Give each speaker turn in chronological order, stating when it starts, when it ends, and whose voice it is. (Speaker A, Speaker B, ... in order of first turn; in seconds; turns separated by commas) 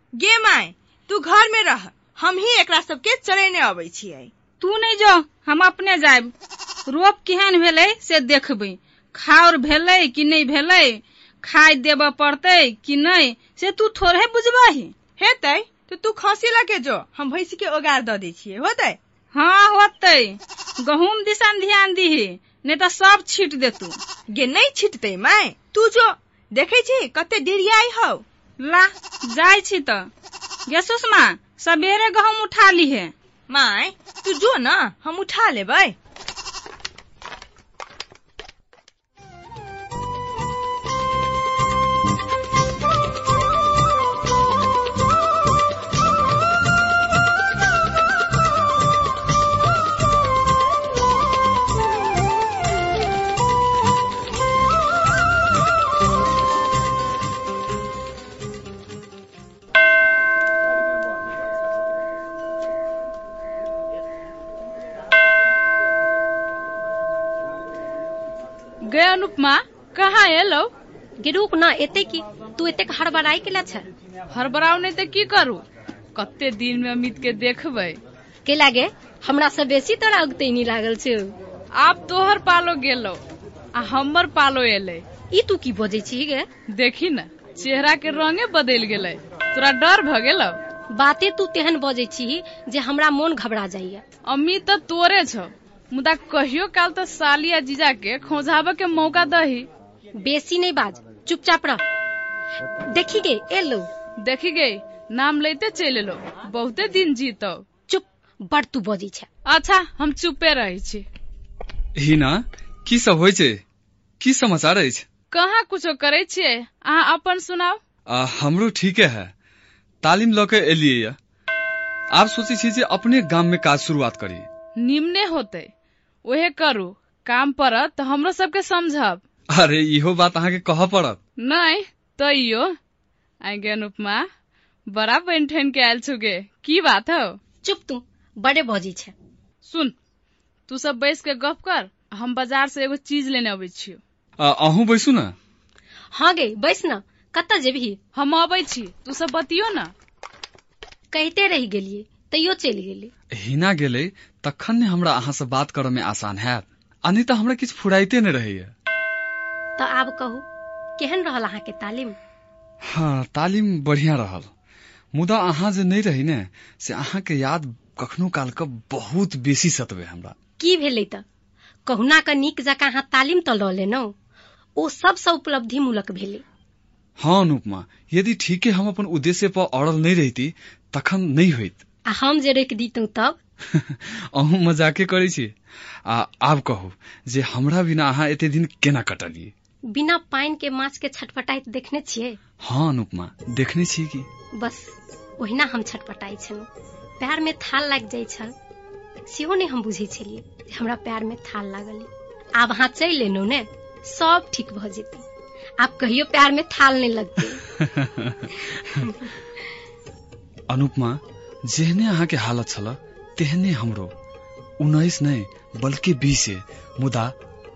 Speaker A: 0.2-4.3, Speaker B: 4.6-6.3, Speaker B: 6.9-14.9, Speaker A: 15.2-19.0, Speaker B: 19.3-24.0, Speaker A: 24.4-28.2, Speaker B: 28.6-30.1, Speaker B: 30.7-33.1, Speaker A: 33.5-35.9, Speaker C: 68.8-70.7, Speaker D: 71.2-73.9, Speaker C: 74.3-75.6, Speaker C: 76.1-78.0, Speaker D: 78.4-81.3, Speaker C: 81.8-83.2, Speaker C: 83.8-85.0, Speaker D: 85.3-86.5, Speaker C: 86.7-90.6, Speaker D: 90.9-94.0, Speaker C: 94.3-99.7, Speaker D: 100.2-101.8, Speaker D: 102.9-103.9, Speaker C: 104.2-107.6, Speaker D: 107.9-109.3, Speaker C: 109.5-111.0, Speaker E: 112.0-113.6, Speaker E: 114.2-115.0, Speaker C: 115.3-117.8, Speaker E: 118.1-119.3, Speaker E: 120.0-121.2, Speaker E: 122.1-124.5, Speaker C: 124.8-125.7, Speaker C: 126.2-129.2, Speaker E: 129.5-131.2, Speaker C: 131.4-132.8, Speaker C: 133.4-134.3, Speaker C: 134.9-137.4, Speaker D: 137.6-139.1, Speaker C: 139.7-139.9, Speaker C: 140.7-144.0, Speaker E: 144.4-145.3, Speaker D: 146.1-148.0, Speaker C: 148.2-149.9, Speaker D: 151.1-153.1, Speaker E: 153.3-158.7, Speaker D: 159.8-160.4, Speaker D: 161.0-162.2, Speaker E: 162.9-164.5, Speaker E: 165.1-170.3, Speaker D: 170.6-171.2, Speaker D: 171.9-174.1, Speaker D: 174.8-176.4, Speaker E: 177.2-181.8, Speaker D: 182.1-183.4, Speaker E: 183.7-185.5, Speaker E: 186.1-189.5, Speaker D: 189.9-192.4, Speaker E: 192.6-194.3, Speaker D: 194.6-196.7, Speaker D: 197.2-198.5, Speaker D: 199.3-205.2, Speaker D: 205.8-207.6, Speaker E: 207.8-208.5, Speaker E: 210.7-214.1, Speaker E: 214.8-217.3